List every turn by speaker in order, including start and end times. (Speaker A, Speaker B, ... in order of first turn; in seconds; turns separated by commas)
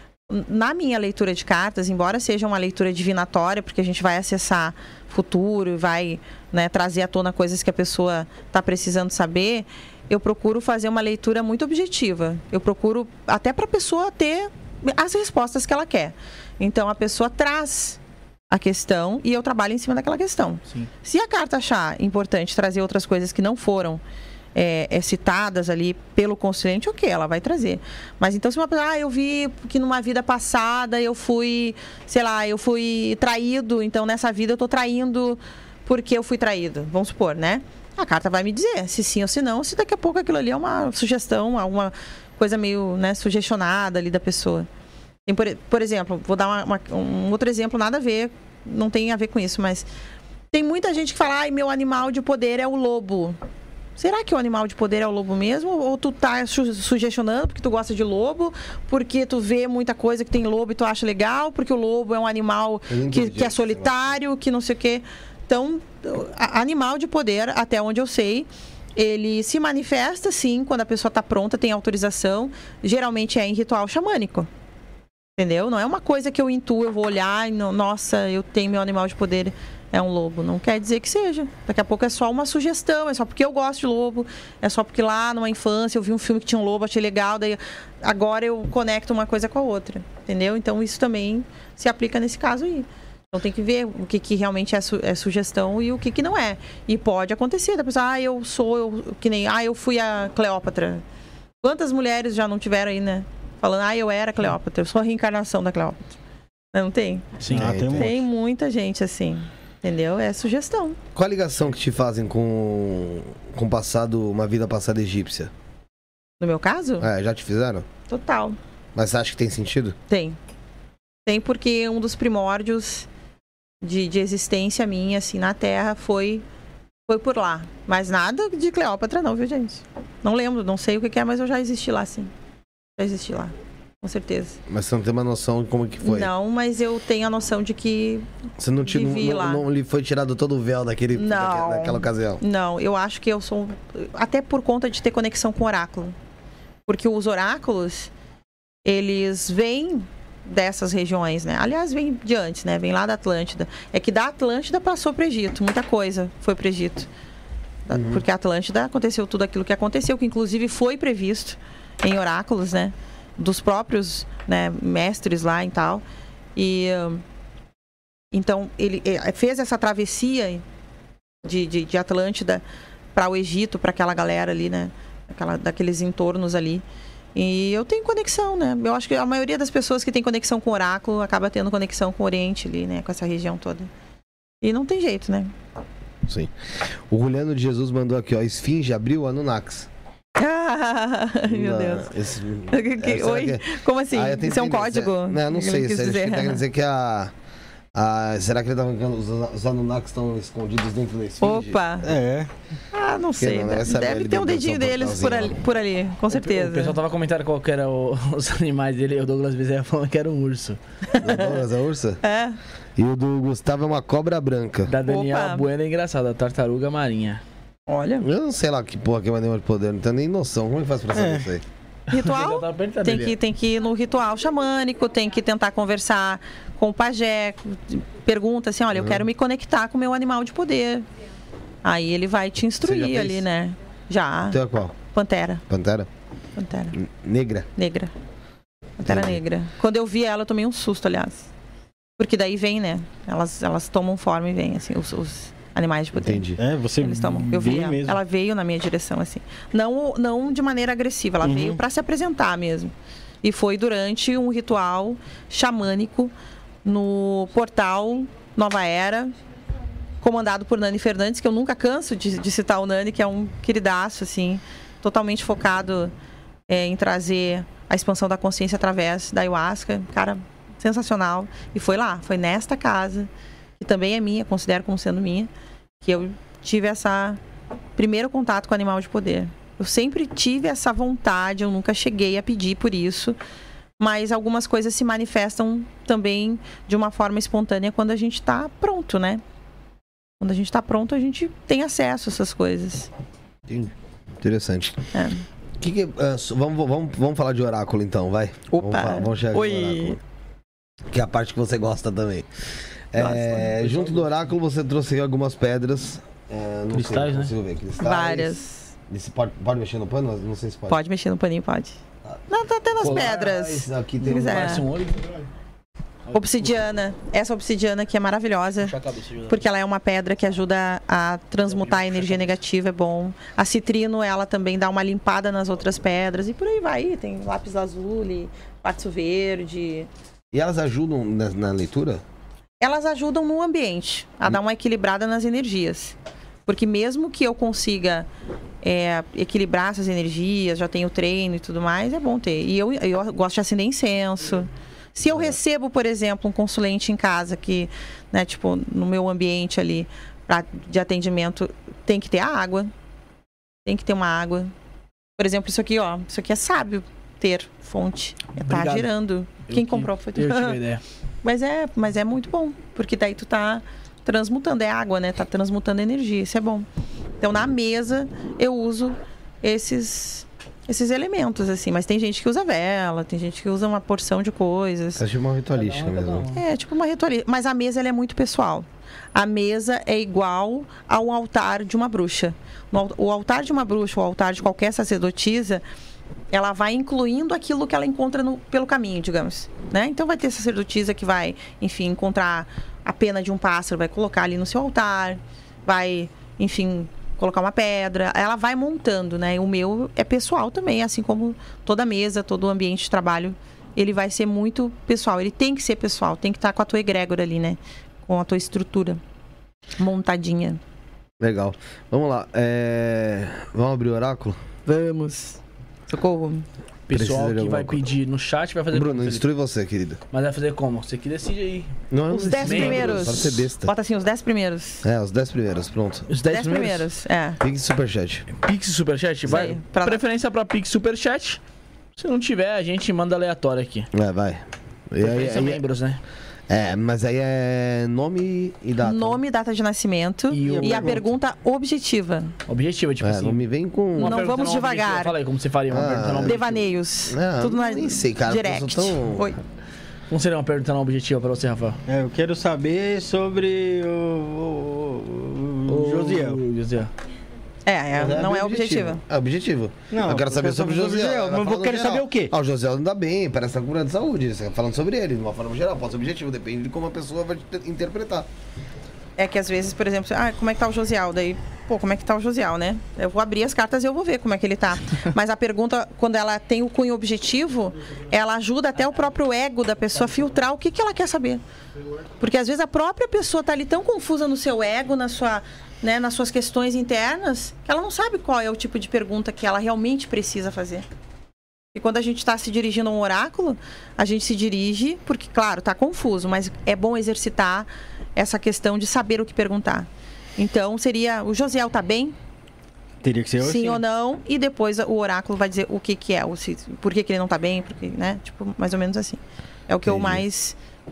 Speaker A: 0.3-18.0, Speaker A: 18.5-24.0, Speaker A: 24.5-44.7, Speaker A: 45.2-49.9, Speaker A: 50.5-53.4, Speaker A: 54.0-74.5, Speaker B: 62.9-64.2, Speaker A: 75.4-101.0, Speaker A: 101.6-106.1, Speaker A: 106.7-107.3, Speaker C: 107.4-107.8, Speaker D: 107.5-108.2, Speaker B: 107.5-108.2, Speaker A: 107.9-111.0, Speaker B: 111.1-115.5, Speaker A: 116.4-117.1, Speaker B: 117.0-117.9, Speaker A: 118.1-118.6, Speaker B: 118.9-120.0, Speaker A: 120.1-120.4, Speaker A: 121.2-123.1, Speaker A: 123.8-126.4, Speaker A: 127.1-132.3, Speaker A: 133.0-134.6, Speaker B: 134.7-136.3, Speaker A: 136.0-138.3, Speaker B: 138.6-142.4, Speaker A: 138.8-139.6, Speaker A: 141.1-146.1, Speaker A: 146.8-148.1, Speaker A: 148.8-157.1, Speaker A: 157.9-166.0, Speaker B: 157.9-158.2, Speaker A: 166.6-167.2, Speaker A: 168.3-170.6, Speaker A: 171.4-172.6, Speaker A: 173.1-183.9, Speaker A: 184.6-185.5, Speaker B: 186.2-186.5, Speaker B: 187.1-189.9, Speaker A: 190.4-192.1, Speaker B: 191.4-197.3, Speaker A: 192.7-196.6, Speaker B: 197.9-202.2, Speaker A: 201.4-202.0, Speaker D: 202.0-202.5, Speaker A: 202.9-206.9, Speaker B: 203.4-205.6, Speaker C: 206.3-210.8, Speaker A: 211.1-211.6, Speaker B: 211.2-212.2, Speaker A: 212.2-212.6, Speaker B: 213.0-214.9, Speaker C: 214.9-217.4, Speaker A: 215.0-215.7, Speaker A: 217.9-218.3, Speaker B: 218.2-221.6, Speaker D: 221.1-221.5, Speaker A: 222.1-231.1, Speaker C: 222.1-223.3, Speaker B: 228.9-229.2, Speaker A: 231.8-234.6, Speaker B: 232.8-233.4, Speaker B: 234.5-235.0, Speaker A: 235.1-235.6, Speaker B: 235.7-236.1, Speaker A: 236.6-236.9, Speaker B: 236.9-237.7, Speaker A: 237.8-238.1, Speaker A: 239.0-241.5, Speaker B: 239.0-239.4, Speaker A: 242.2-256.3, Speaker B: 246.1-246.6, Speaker D: 246.6-248.2, Speaker C: 247.6-247.9, Speaker D: 251.4-251.8, Speaker A: 256.8-259.3, Speaker A: 260.2-266.1, Speaker A: 266.7-275.5, Speaker A: 276.0-277.4, Speaker A: 277.9-283.4, Speaker A: 284.0-289.4, Speaker A: 290.4-293.1, Speaker B: 293.7-295.0, Speaker A: 295.1-295.4, Speaker B: 295.8-300.2, Speaker A: 298.7-300.2, Speaker B: 301.1-302.5, Speaker B: 303.1-308.6, Speaker A: 303.2-303.6, Speaker C: 303.6-304.3, Speaker C: 306.9-307.5, Speaker A: 308.0-308.9, Speaker B: 309.1-311.0, Speaker A: 310.9-314.8, Speaker B: 313.0-314.8, Speaker C: 313.0-315.4, Speaker C: 316.3-316.7, Speaker A: 316.3-318.9, Speaker C: 318.8-319.6, Speaker A: 319.5-330.1, Speaker C: 321.6-322.5, Speaker B: 330.5-332.2, Speaker A: 332.8-336.1, Speaker A: 336.7-338.3, Speaker A: 338.8-352.9, Speaker B: 345.3-345.6, Speaker A: 353.8-354.7, Speaker A: 355.4-360.8, Speaker C: 358.6-359.1, Speaker C: 359.7-361.0, Speaker A: 361.4-366.9, Speaker A: 367.4-375.2, Speaker B: 375.1-376.5, Speaker C: 375.7-376.6, Speaker A: 376.5-385.8, Speaker A: 386.5-409.2, Speaker A: 410.0-410.8, Speaker B: 411.4-414.6, Speaker A: 414.9-416.6, Speaker C: 417.1-419.4, Speaker B: 417.1-418.0, Speaker B: 418.9-420.2, Speaker C: 420.3-421.9, Speaker B: 422.1-423.9, Speaker A: 422.3-425.0, Speaker C: 422.6-423.4, Speaker B: 425.0-426.3, Speaker C: 426.3-427.1, Speaker A: 426.4-427.6, Speaker B: 427.6-428.5, Speaker C: 428.5-431.6, Speaker B: 429.5-429.7, Speaker A: 429.5-430.2, Speaker C: 432.2-434.1, Speaker B: 434.1-435.8, Speaker C: 435.2-436.2, Speaker B: 436.7-439.4, Speaker A: 439.0-442.5, Speaker C: 440.5-441.3, Speaker D: 440.6-441.2, Speaker C: 442.7-446.8, Speaker B: 443.2-444.4, Speaker A: 444.2-445.3, Speaker B: 445.9-449.5, Speaker A: 446.4-449.6, Speaker C: 450.3-452.0, Speaker D: 452.1-456.6, Speaker C: 455.9-457.1, Speaker A: 457.9-459.2, Speaker B: 458.1-468.5, Speaker D: 460.1-462.5, Speaker A: 469.4-481.6, Speaker A: 482.4-491.1, Speaker A: 491.9-502.4, Speaker D: 503.2-504.0, Speaker A: 503.6-510.8, Speaker B: 510.0-510.4